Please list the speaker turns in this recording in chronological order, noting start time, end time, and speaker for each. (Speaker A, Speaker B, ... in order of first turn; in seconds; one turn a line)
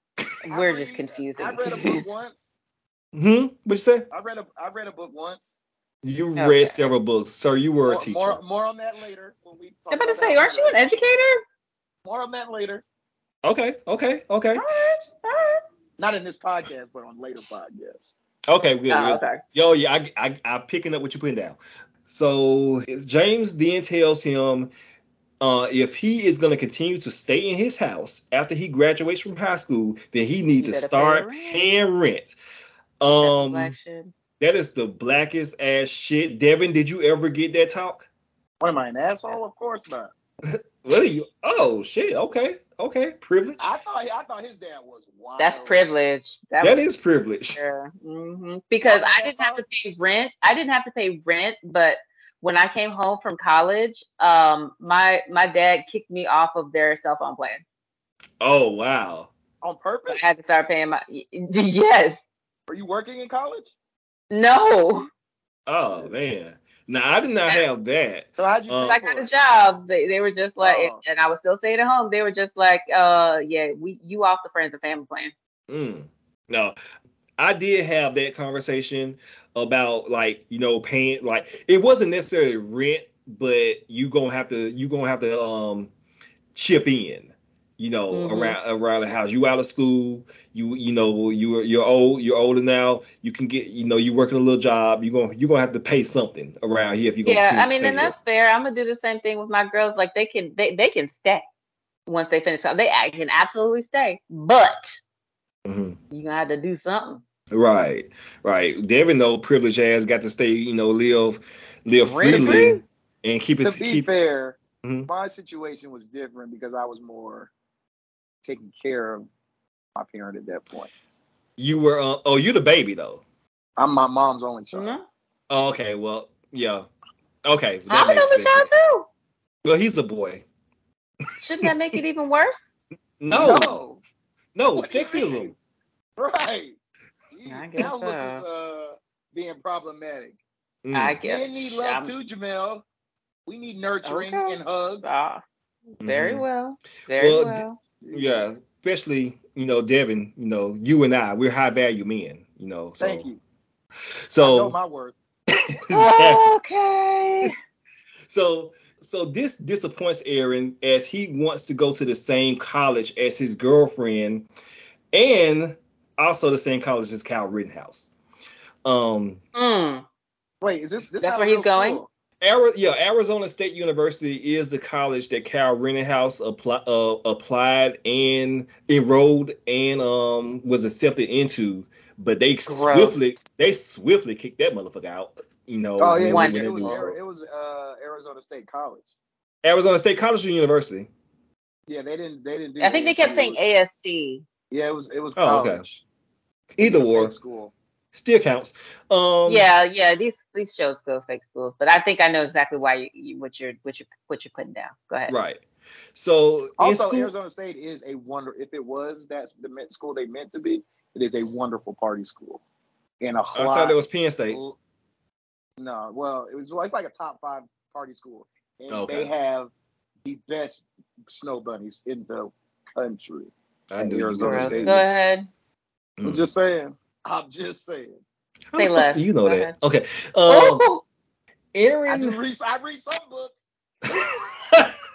Speaker A: 0.5-2.1
Speaker B: 0.5-2.5
Speaker C: 3.1-4.1
Speaker B: 4.1-5.6
Speaker C: 6.0-8.4
Speaker A: 6.4-6.9
Speaker B: 7.9-10.9
Speaker A: 9.9-11.4
Speaker B: 12.1-12.8
Speaker C: 13.4-14.7
Speaker A: 14.6-15.6
Speaker B: 16.0-18.1
Speaker C: 18.5-24.7
Speaker A: 18.9-19.4
Speaker C: 25.4-32.4
Speaker A: 30.6-31.7
Speaker C: 33.0-33.8
Speaker A: 33.2-34.1
Speaker C: 34.4-38.1
Speaker B: 38.6-40.1
Speaker C: 40.5-43.6
Speaker B: 43.6-45.8
Speaker A: 45.4-46.8
Speaker C: 46.6-47.6
Speaker A: 47.5-57.6
Speaker B: 48.8-49.6
Speaker C: 58.4-59.3
Speaker B: 59.6-60.3
Speaker A: 60.1-62.2
Speaker B: 62.7-63.7
Speaker A: 64.3-65.1
Speaker C: 65.7-69.0
Speaker B: 68.3-69.3
Speaker A: 68.8-75.3
Speaker B: 70.6-71.0
Speaker C: 75.7-76.8
Speaker C: 77.4-85.9
Speaker C: 86.5-98.1
Speaker A: 88.1-88.6
Speaker A: 97.2-101.4
Speaker A: 102.1-105.0
Speaker C: 105.7-106.0
Speaker A: 106.1-107.2
Speaker C: 107.5-114.1
Speaker B: 112.1-112.8
Speaker A: 112.2-112.8
Speaker B: 113.6-117.5
Speaker C: 114.8-115.1
Speaker B: 118.4-119.3
Speaker B: 120.0-120.9
Speaker C: 121.6-123.2
Speaker B: 123.8-125.0
Speaker A: 124.7-125.0
Speaker C: 125.5-126.9
Speaker C: 127.5-128.7
Speaker A: 127.9-129.1
Speaker C: 129.7-130.4
Speaker A: 131.4-132.7
Speaker C: 133.2-133.8
Speaker B: 133.3-134.0
Speaker C: 134.6-135.5
Speaker B: 134.8-135.5
Speaker B: 136.2-136.8
Speaker B: 137.3-140.4
Speaker A: 137.5-138.4
Speaker C: 140.8-141.2
Speaker A: 140.9-142.1
Speaker B: 141.2-142.8
Speaker B: 143.5-145.2
Speaker A: 144.0-145.4
Speaker A: 146.0-147.8
Speaker C: 146.0-146.4
Speaker C: 147.2-153.3
Speaker B: 148.0-148.6
Speaker B: 153.0-153.4
Speaker C: 154.3-154.8
Speaker B: 154.4-155.2
Speaker C: 155.8-156.4
Speaker A: 155.9-157.5
Speaker C: 158.3-164.5
Speaker C: 165.1-168.1
Speaker C: 168.8-169.4
Speaker A: 169.6-170.1
Speaker B: 170.6-172.1
Speaker A: 171.2-172.0
Speaker C: 172.4-187.2
Speaker A: 182.7-183.2
Speaker B: 186.0-189.2
Speaker A: 186.3-187.0
Speaker C: 189.6-191.1
Speaker B: 191.9-193.6
Speaker A: 192.8-194.4
Speaker B: 194.7-196.0
Speaker C: 195.4-195.8
Speaker C: 196.8-197.3
Speaker B: 196.8-197.7
Speaker C: 198.1-199.7
Speaker A: 199.5-205.3
Speaker C: 205.3-205.6
Speaker C: 206.2-207.3
Speaker B: 206.8-212.6
Speaker B: 213.2-213.9
Speaker C: 213.6-214.6
Speaker B: 214.5-214.8
Speaker B: 215.8-219.7
Speaker C: 218.9-219.3
Speaker B: 220.2-225.1
Speaker C: 223.9-224.9
Speaker A: 224.4-225.5
Speaker C: 226.2-226.5
Speaker B: 226.2-228.2
Speaker C: 228.7-230.8
Speaker A: 228.8-229.8
Speaker A: 230.5-231.0
Speaker C: 231.8-232.4
Speaker B: 232.1-233.6
Speaker C: 234.1-234.9